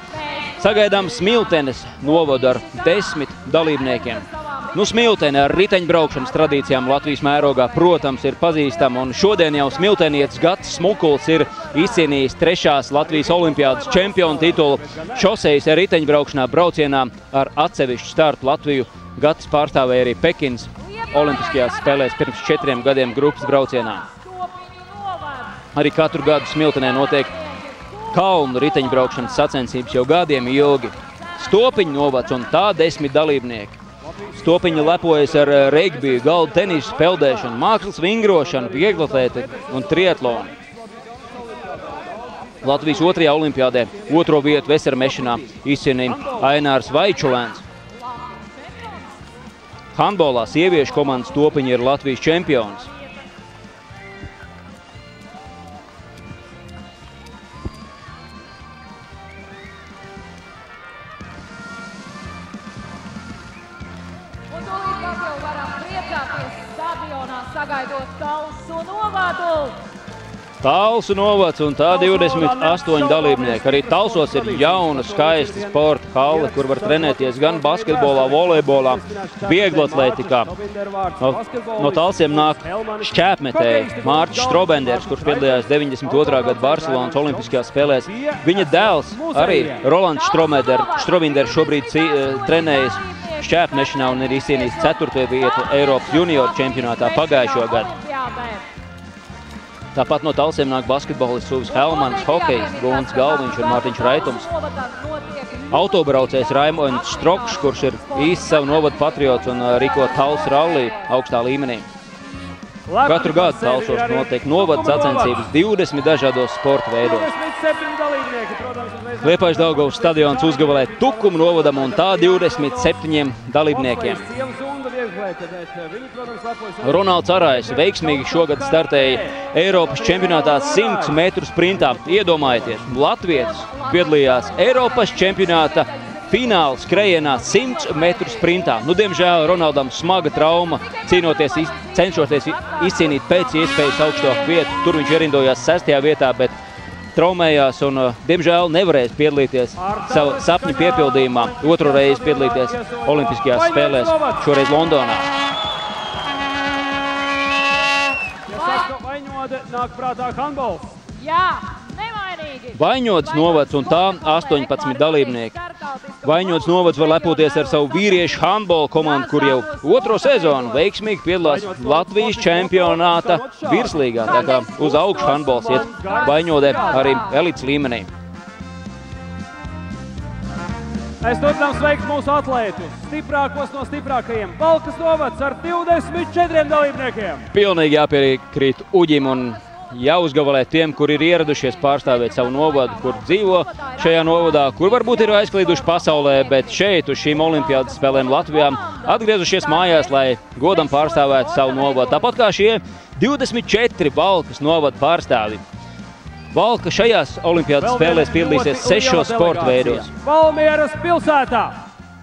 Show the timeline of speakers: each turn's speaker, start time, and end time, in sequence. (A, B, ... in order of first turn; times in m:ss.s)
0:00.1-0:12.2 A
0:00.6-0:24.0 B
0:13.0-0:15.3 C
0:20.8-0:25.7 A
0:25.7-0:27.3 B
0:26.8-0:29.5 A
0:28.1-0:33.8 B
0:30.9-0:32.8 A
0:34.0-0:37.6 C
0:34.3-0:40.5 B
0:38.3-0:43.2 C
0:42.6-0:47.6 B
0:45.4-0:46.6 C
0:48.0-0:49.2 A
0:49.9-0:52.9 B
0:50.9-0:51.2 A
1:04.5-1:09.8 A
1:10.6-1:20.5 B
1:11.9-1:29.8 C
1:21.2-1:37.9 B
1:30.1-1:38.6 A
1:39.9-1:44.5 B
1:41.7-1:51.1 A
1:45.7-1:51.8 B
1:52.9-1:55.5 C
1:53.0-1:57.3 B
1:57.0-2:03.0 C
1:59.2-2:04.2 B
2:03.7-2:11.2 C
2:06.8-2:26.5 B
2:11.8-2:12.9 C
2:13.3-2:25.2 A
2:27.1-2:35.3 B
2:29.8-2:34.5 C
2:38.5-2:41.0 C
2:41.1-2:50.9 A
2:42.7-2:45.6 B
2:46.2-2:58.1 B
2:51.4-2:57.2 C
2:54.3-2:57.4 A
3:01.2-3:07.5 C
3:07.5-3:25.6 B
3:12.0-3:22.4 A
3:26.5-3:30.1 B
3:27.8-3:31.8 C